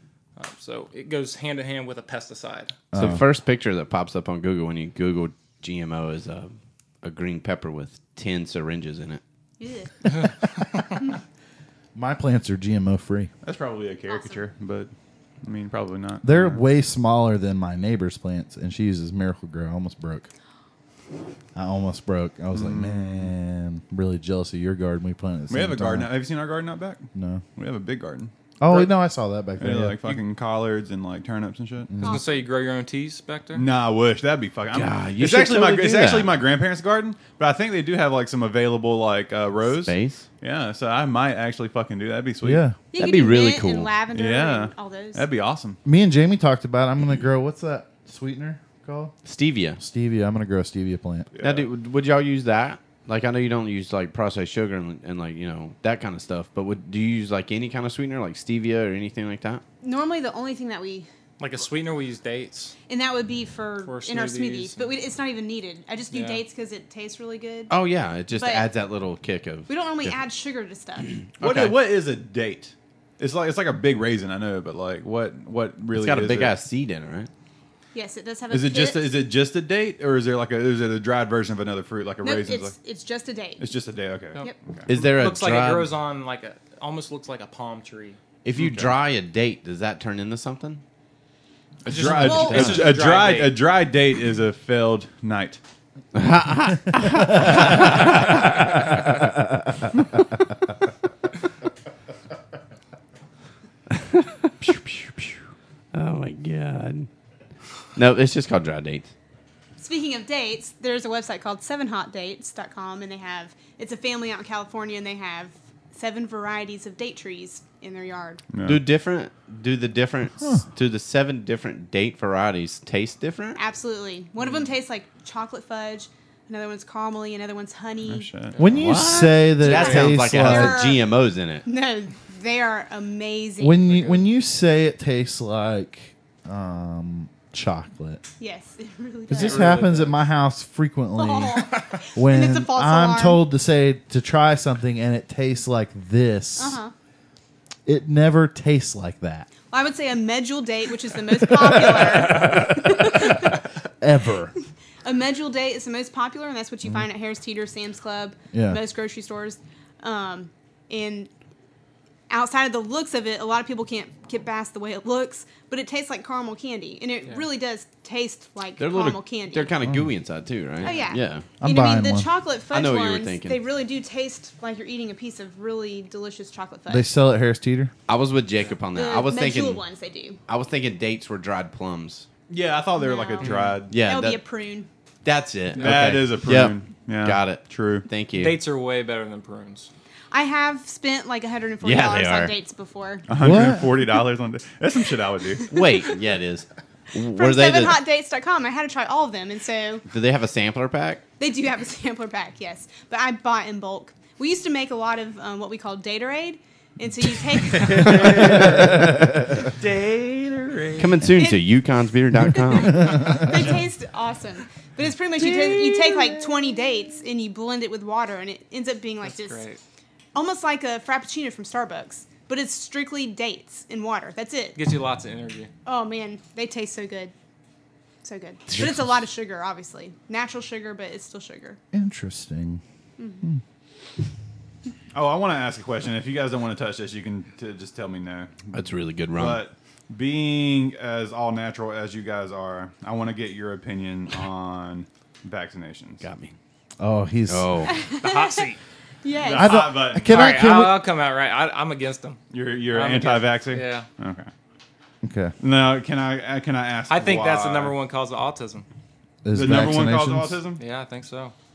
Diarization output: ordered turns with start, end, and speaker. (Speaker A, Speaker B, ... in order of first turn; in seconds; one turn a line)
Speaker A: 0.4-2.8
Speaker B: 2.9-3.2
Speaker C: 2.9-9.2
Speaker D: 9.6-10.4
Speaker B: 11.9-13.3
Speaker E: 13.4-14.9
Speaker D: 14.1-14.5
Speaker E: 15.4-16.6
Speaker B: 16.2-20.3
Speaker B: 21.5-26.1
Speaker E: 22.5-23.3
Speaker E: 25.5-28.9
Speaker B: 27.1-27.4
Speaker B: 28.6-30.1
Speaker E: 29.6-31.9
Speaker B: 31.9-32.2
Speaker D: 32.0-32.5
Speaker A: 32.0-33.6
Speaker E: 33.5-42.6
Speaker C: 34.7-36.3
Speaker C: 39.8-40.3
Speaker B: 42.4-42.8
Speaker D: 42.9-45.3
Speaker C: 42.9-43.9
Speaker E: 44.1-45.8
Speaker B: 45.8-49.1
Speaker C: 49.2-49.8
Speaker B: 49.8-51.3
Speaker E: 51.3-51.7
Speaker C: 51.4-59.6
Speaker D: 59.8-61.1
Speaker A: 61.4-62.8
Speaker D: 62.9-67.7
Speaker A: 63.8-64.9
Speaker A: 66.1-66.4
Speaker C: 67.7-70.1
Speaker D: 68.3-68.7
Speaker D: 69.7-71.2
Speaker C: 71.4-71.8
Speaker E: 71.4-76.5
Speaker C: 75.9-77.3
Speaker D: 77.9-79.2
Speaker E: 78.5-82.7
Speaker D: 82.2-83.7
Speaker E: 83.6-84.9
Speaker A: 84.4-88.2
Speaker C: 84.9-85.9
Speaker C: 88.4-90.8
Speaker E: 88.5-88.9
Speaker E: 91.8-95.6
Speaker A: 91.8-93.6
Speaker D: 92.2-92.8
Speaker C: 92.5-92.8
Speaker C: 96.1-99.1
Speaker C: 103.9-105.4
Speaker C: 105.9-107.1
Speaker C: 107.9-109.1
Speaker D: 109.8-118.4
Speaker E: 118.5-118.8
Speaker C: 118.6-123.6
Speaker D: 123.5-128.3
Speaker E: 128.1-128.6
Speaker A: 128.5-128.8
Speaker B: 128.6-130.8
Speaker C: 128.8-131.6
Speaker D: 129.6-131.1
Speaker D: 131.7-133.9
Speaker B: 133.6-138.2
Speaker A: 133.9-134.2
Speaker D: 138.4-139.9
Speaker B: 139.3-146.8
Speaker A: 139.3-140.2
Speaker D: 141.2-143.4
Speaker D: 146.6-146.9
Speaker B: 147.8-149.5
Speaker D: 149.7-153.6
Speaker B: 151.6-154.5
Speaker D: 155.0-161.3
Speaker B: 158.5-158.8
Speaker D: 162.3-169.7
Speaker C: 168.8-171.5
Speaker B: 169.8-170.1
Speaker D: 170.8-177.1
Speaker A: 170.8-171.1
Speaker B: 171.6-172.3
Speaker C: 172.7-173.6
Speaker B: 176.9-177.9
Speaker C: 178.1-179.8
Speaker D: 178.9-180.4
Speaker C: 180.5-182.3
Speaker E: 182.5-184.0
Speaker D: 182.9-184.9
Speaker A: 183.4-183.8
Speaker C: 183.9-184.4
Speaker C: 185.2-188.6
Speaker E: 185.8-188.1
Speaker A: 188.3-189.9
Speaker D: 190.3-193.3
Speaker C: 191.8-192.5
Speaker E: 193.3-195.7
Speaker B: 193.4-193.9
Speaker C: 195.7-198.0
Speaker D: 197.2-200.0
Speaker C: 200.1-201.2
Speaker D: 201.4-208.6
Speaker A: 207.8-208.7
Speaker B: 208.4-209.3
Speaker A: 210.3-211.0
Speaker C: 211.0-213.6
Speaker D: 211.3-211.6
Speaker D: 212.5-219.6
Speaker B: 213.0-213.4
Speaker A: 219.2-219.8
Speaker D: 220.3-224.8
Speaker A: 224.7-225.7
Speaker D: 225.8-227.3
Speaker D: 228.2-231.8
Speaker B: 231.9-232.8
Speaker D: 233.2-233.4
Speaker E: 235.1-238.8
Speaker C: 238.7-239.6
Speaker E: 239.3-246.2
Speaker C: 246.2-246.5
Speaker B: 247.0-247.8
Speaker C: 247.5-247.9
Speaker D: 247.8-248.7
Speaker A: 248.2-248.8
Speaker D: 249.2-249.9
Speaker E: 249.4-250.5
Speaker B: 249.5-251.0
Speaker A: 250.2-254.1
Speaker E: 252.5-254.5
Speaker B: 255.2-255.5
Speaker E: 255.6-257.9
Speaker A: 257.1-258.9
Speaker B: 259.4-260.6
Speaker E: 259.5-260.8
Speaker A: 260.8-261.5